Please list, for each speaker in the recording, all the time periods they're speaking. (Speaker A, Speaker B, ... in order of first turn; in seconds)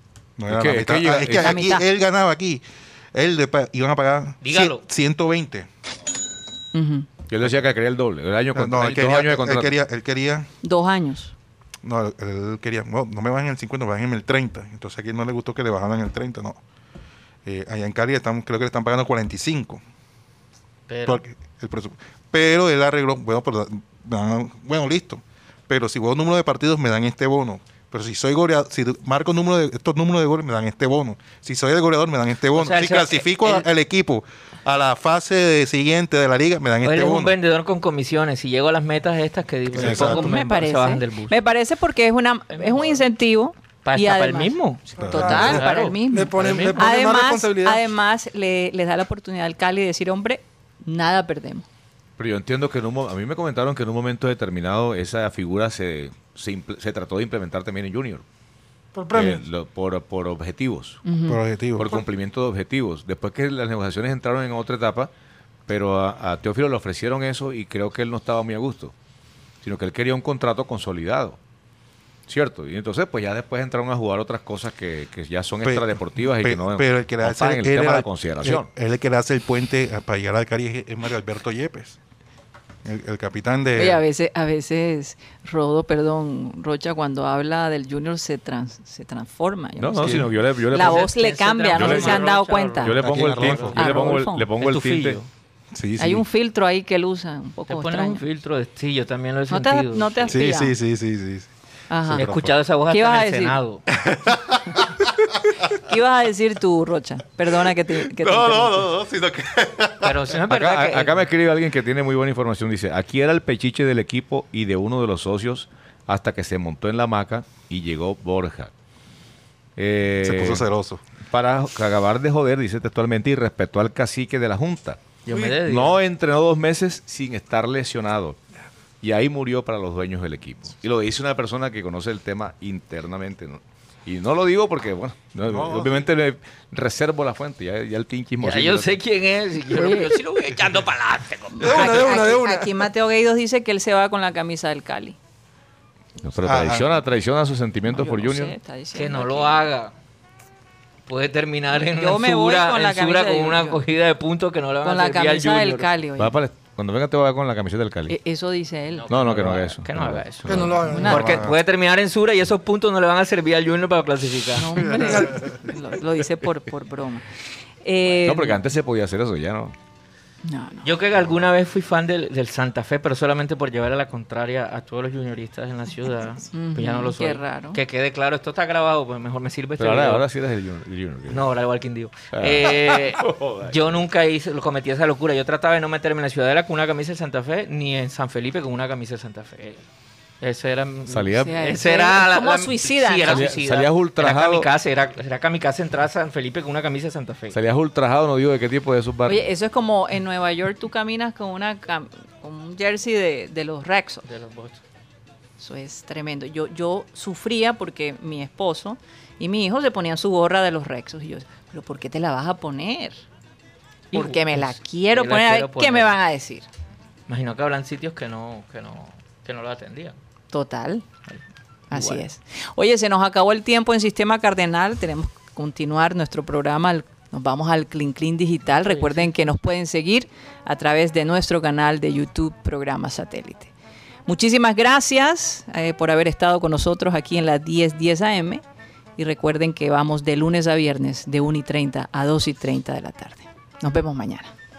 Speaker A: 0.4-2.6, 3.1-5.7, 8.6-10.5, 11.8-16.6, 17.5-19.8, 21.1-37.4, 39.7-40.3, 45.0-45.6, 61.3-62.0, 75.6-82.0, 82.8-84.0, 90.0-90.3, 91.8-92.2, 93.0-93.8, 95.8-96.2, 100.3-101.5, 102.0-102.6, 104.0-104.9, 107.9-110.2, 120.2-121.0, 135.4-136.1, 146.4-147.0, 161.1-161.6
Speaker B: 0.5-1.7, 7.3-9.7, 52.2-58.2, 59.1-61.0, 61.8-65.1, 65.7-68.9, 69.6-71.4, 72.3-78.7, 89.8-91.1, 91.8-92.3, 92.8-95.2, 110.5-118.7, 119.8-120.7, 121.3-125.0, 125.5-128.4, 129.0-139.0, 146.2-148.5, 156.2-158.2, 159.1-160.8, 168.2-169.8, 179.8-181.5, 182.3-184.0, 191.1-191.6, 193.3-194.7, 197.5-199.5
Speaker C: 1.1-1.9, 6.7-7.1, 10.6-11.3, 39.8-51.7, 61.0-61.4, 83.8-93.0, 93.7-94.5, 96.0-98.2, 99.5-100.7, 101.9-102.3, 102.9-103.6, 105.7-108.9, 139.7-140.1, 141.6-145.2, 147.9-149.7, 151.8-153.8, 154.8-156.4, 158.1-159.2, 160.8-161.4, 164.6-167.3, 167.8-168.6, 170.5-170.9, 176.5-177.8, 191.4-193.5, 199.3-204.3, 205.6-213.2, 214.1-216.7, 220.5-221.1, 221.9-233.7, 234.3-238.6, 239.2-244.5
Speaker D: 4.4-4.8, 20.9-21.2, 32.5-33.7, 36.8-41.4, 42.5-43.0, 43.9-46.8, 90.7-93.8, 94.6-95.3, 97.7-100.4, 102.2-103.9, 110.0-111.3, 125.3-126.0, 138.4-142.1, 148.9-149.9, 151.1-155.9, 159.0-165.2, 170.8-180.2, 181.3-189.8, 190.4-197.6, 204.3-204.8, 214.1-216.1, 217.3-220.2, 221.9-222.2, 228.8-229.3
Speaker E: 45.0-47.8, 58.9-59.4, 141.6-142.7, 160.5-161.4